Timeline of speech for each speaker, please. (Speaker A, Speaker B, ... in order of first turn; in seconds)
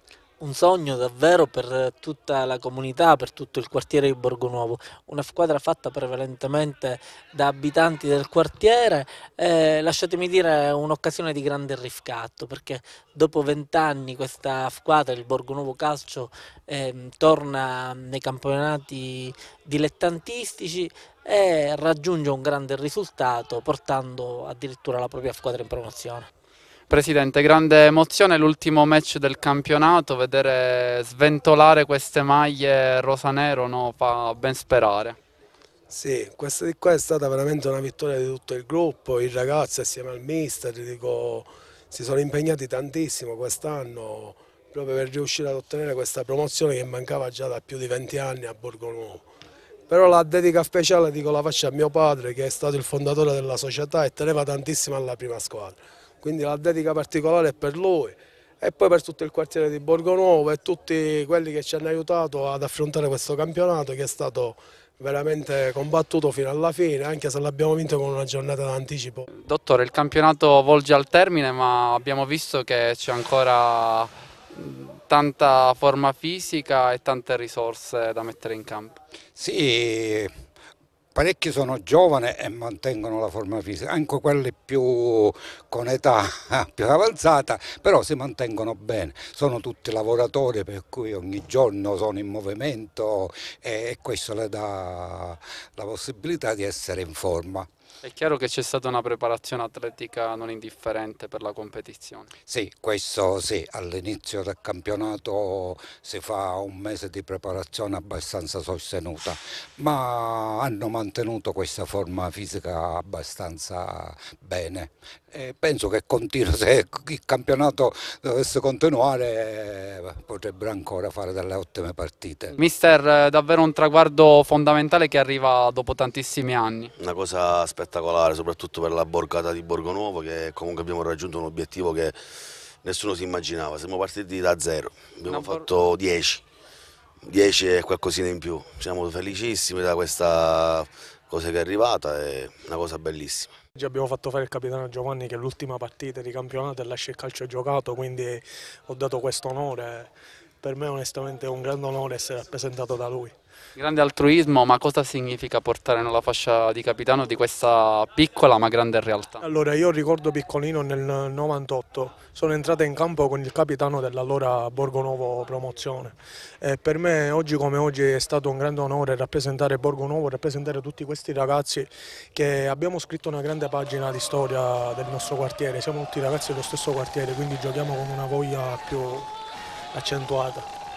Speaker A: 0.4-26.3
Speaker B: 26.9-35.2, 69.3-79.0, 98.0-102.3, 122.6-126.9, 135.3-135.7, 153.8-159.4
Speaker C: 35.9-49.2, 49.9-69.3
Speaker D: 79.3-80.3, 81.1-97.7, 102.5-122.5
Speaker E: 127.0-132.2, 132.8-136.4, 137.2-143.5
Speaker F: 143.8-150.1, 150.6-153.3, 159.4-179.3, 179.9-180.7